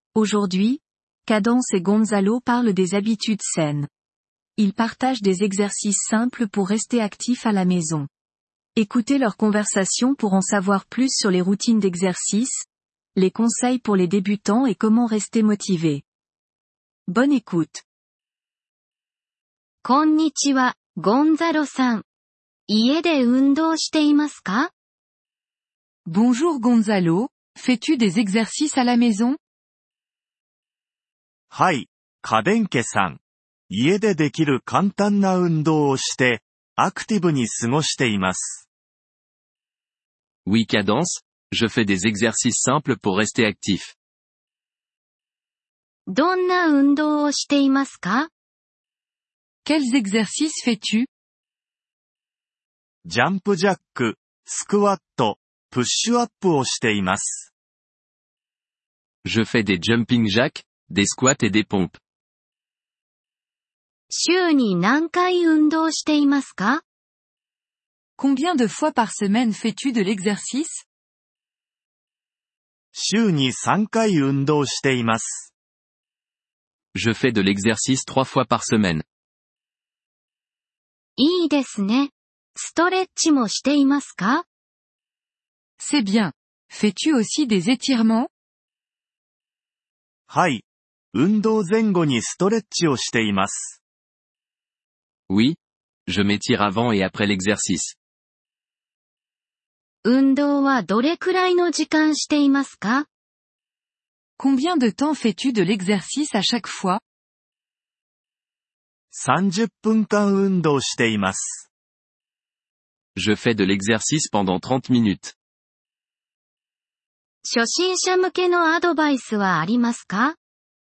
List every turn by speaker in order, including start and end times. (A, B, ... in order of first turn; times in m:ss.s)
0:00.1-0:03.9 A
0:04.6-0:08.1 A
0:08.8-0:16.0 A
0:17.1-0:17.8 A
0:19.8-0:22.0 B
0:22.7-0:24.7 B
0:26.0-0:29.4 C
0:31.5-0:38.6 D
0:40.4-0:43.9 E
0:46.1-0:48.3 B
0:49.6-0:51.1 C
0:53.0-0:57.5 D
0:59.2-1:02.0 E
1:04.1-1:06.8 B
1:08.2-1:10.8 C
1:12.9-1:15.5 D
1:16.9-1:19.0 E
1:21.2-1:24.4 B
1:25.8-1:28.3 C
1:30.3-1:33.8 D
1:35.3-1:38.0 E
1:40.0-1:43.1 B
1:44.4-1:47.0 C
1:49.1-1:51.7 D
1:53.2-1:55.3 E
1:57.4-2:00.4 B